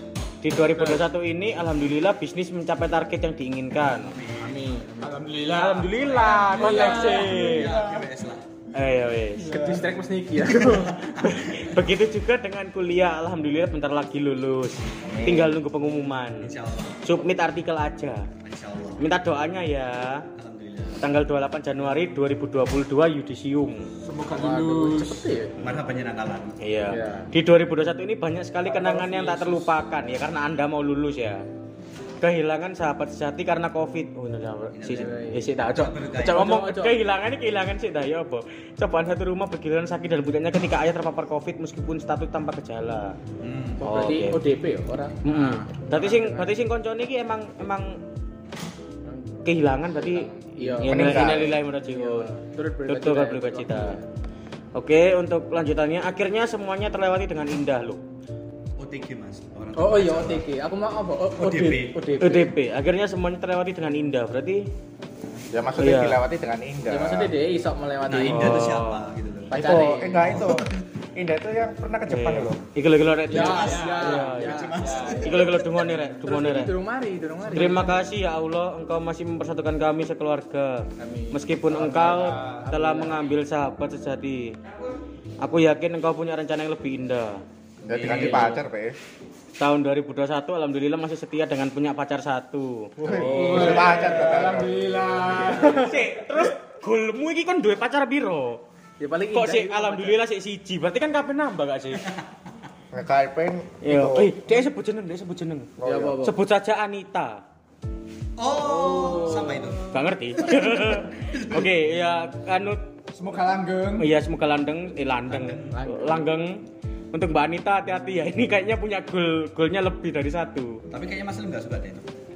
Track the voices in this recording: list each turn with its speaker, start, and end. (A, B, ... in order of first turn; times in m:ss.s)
0:00.4-0:04.1 A
0:03.9-0:04.8 B
0:04.4-0:05.2 C
0:05.0-0:08.0 D
0:05.5-0:07.8 A
0:06.0-0:07.3 C
0:06.2-0:08.4 B
0:08.7-0:09.6 A
0:09.4-0:09.9 D
0:09.4-0:11.0 C
0:10.7-0:11.6 B
0:11.2-0:18.3 A
0:15.0-0:15.5 E
0:16.4-0:17.0 B
0:18.4-0:19.0 B
0:19.0-0:20.2 A
0:20.3-0:21.0 B
0:21.0-0:23.9 A
0:24.0-0:25.3 D
0:24.3-0:25.6 C
0:25.6-0:26.6 B
0:26.6-0:31.4 A
0:26.9-0:27.3 C
0:28.7-0:29.7 D
0:32.2-0:43.2 A
0:34.7-0:35.2 B
0:34.8-0:35.5 C
0:35.7-0:36.5 B
0:36.2-0:37.0 C
0:43.4-0:43.8 B
0:43.8-0:46.5 C
0:43.8-0:44.4 A
0:45.2-0:48.0 A
0:49.0-0:49.4 C
0:49.4-0:52.3 A
0:50.0-0:54.0 C
0:50.8-0:51.6 E
0:52.8-0:54.0 A
0:54.7-0:58.0 A
0:58.8-1:00.4 B
0:59.8-1:02.5 C
1:01.4-1:02.0 B
1:02.2-1:04.6 A
1:05.5-1:07.3 E
1:05.8-1:06.2 A
1:06.9-1:08.8 C
1:08.1-1:10.7 B
1:08.2-1:09.0 A
1:09.5-1:10.4 C
1:09.5-1:12.6 E
1:12.1-1:16.7 A
1:13.3-1:15.5 C
1:13.3-1:15.7 B
1:14.8-1:15.2 D
1:16.2-1:18.0 C
1:17.5-1:24.6 A
1:21.0-1:23.3 C
1:22.1-1:22.6 D
1:25.4-1:28.6 A
1:27.8-1:29.0 E
1:27.9-1:28.3 B
1:29.6-1:33.9 A
1:33.0-1:33.7 C
1:33.0-1:34.8 E
1:33.1-1:36.0 D
1:35.6-1:38.6 A
1:39.0-1:40.2 C
1:39.3-1:42.1 A
1:42.9-1:44.7 E
1:43.8-1:47.4 A
1:45.8-1:46.2 E
1:45.8-1:46.3 C
1:48.4-1:51.6 B
1:48.6-1:49.9 C
1:49.9-1:52.8 A
1:53.1-1:54.1 D
1:54.0-1:56.6 A
1:55.3-1:55.8 B
1:55.7-1:56.3 C
1:57.1-2:00.8 A
2:00.9-2:02.0 B